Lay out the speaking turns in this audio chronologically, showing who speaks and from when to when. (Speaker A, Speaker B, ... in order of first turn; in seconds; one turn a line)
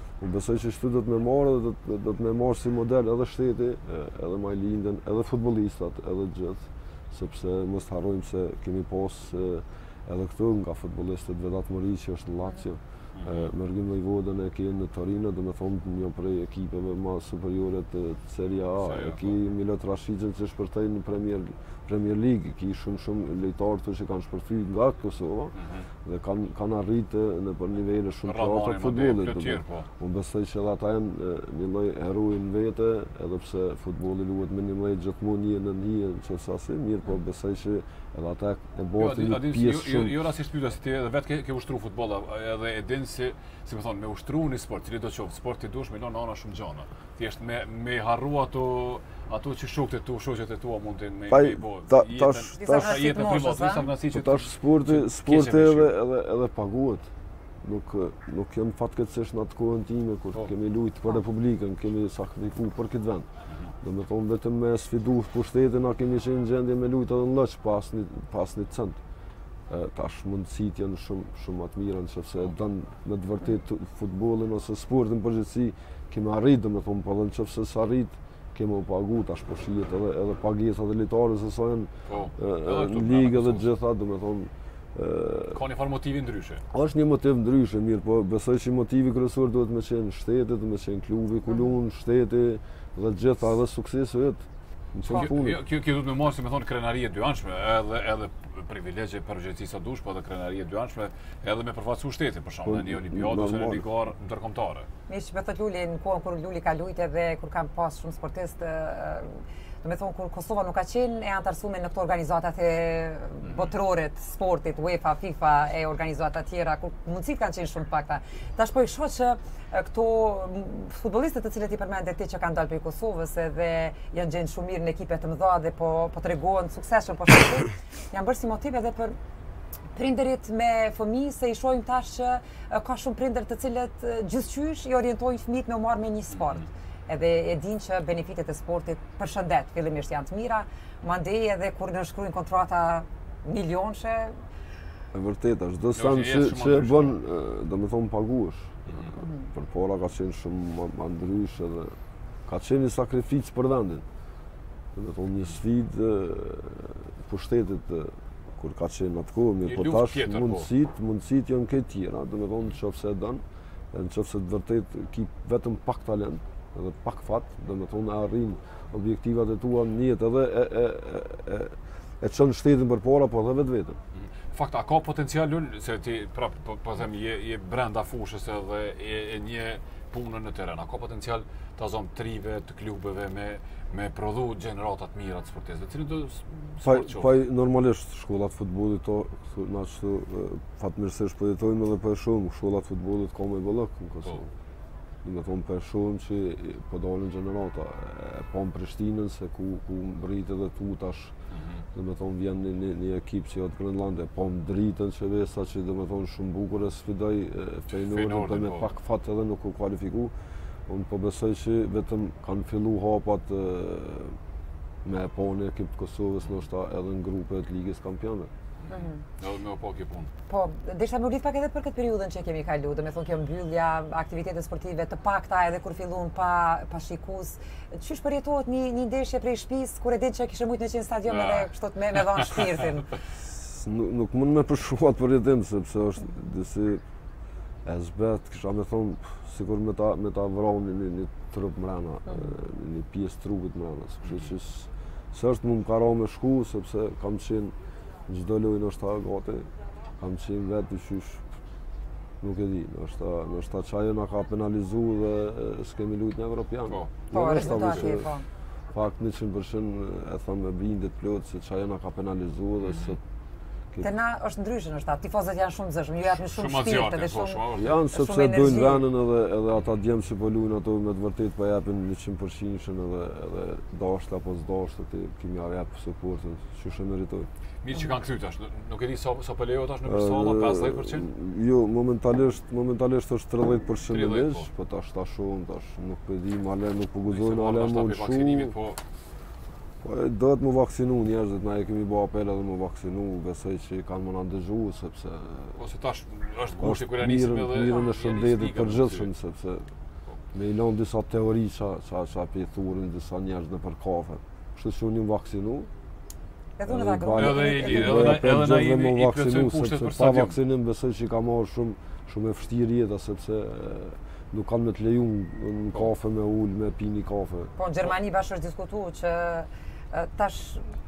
Speaker A: 0.2-40.2
Speaker B: 13.2-13.5
Speaker B: 18.7-19.4
Speaker B: 25.6-25.9
Speaker B: 28.2-29.9
Speaker B: 39.0-55.9
Speaker A: 51.3-53.0
Speaker C: 52.6-53.9
Speaker A: 54.1-57.1
Speaker A: 57.6-63.3
Speaker A: 63.8-69.0
Speaker A: 69.7-85.6
Speaker B: 82.1-83.7
Speaker B: 85.5-86.6
Speaker A: 86.7-95.6
Speaker B: 95.0-104.9
Speaker A: 102.7-103.8
Speaker C: 105.1-129.2
Speaker C: 129.9-144.4
Speaker A: 145.1-151.9
Speaker B: 145.9-147.2
Speaker A: 152.5-154.1
Speaker A: 154.9-174.0
Speaker B: 159.6-160.7
Speaker B: 174.2-187.3
Speaker A: 186.8-194.5
Speaker A: 195.2-201.3
Speaker B: 201.6-201.8
Speaker A: 201.9-210.3
Speaker B: 208.0-208.9
Speaker A: 210.9-214.4
Speaker A: 215.0-218.5
Speaker B: 218.8-220.3
Speaker C: 220.5-233.1
Speaker B: 231.3-232.6
Speaker A: 233.6-237.0
Speaker A: 237.8-247.7
Speaker A: 248.3-249.7
Speaker A: 250.2-251.4
Speaker A: 252.4-258.3
Speaker B: 256.9-258.1
Speaker C: 257.3-258.4
Speaker A: 258.9-263.2
Speaker C: 264.0-269.1
Speaker B: 266.3-268.0
Speaker A: 267.7-277.5
Speaker B: 277.8-281.3
Speaker A: 280.1-288.7
Speaker B: 284.1-284.7
Speaker B: 287.3-289.0
Speaker A: 290.0-295.8
Speaker B: 295.8-299.3
Speaker A: 296.8-299.9
Speaker A: 300.5-305.9
Speaker C: 306.8-308.4
Speaker A: 306.9-317.7
Speaker B: 307.3-310.6
Speaker C: 317.8-320.9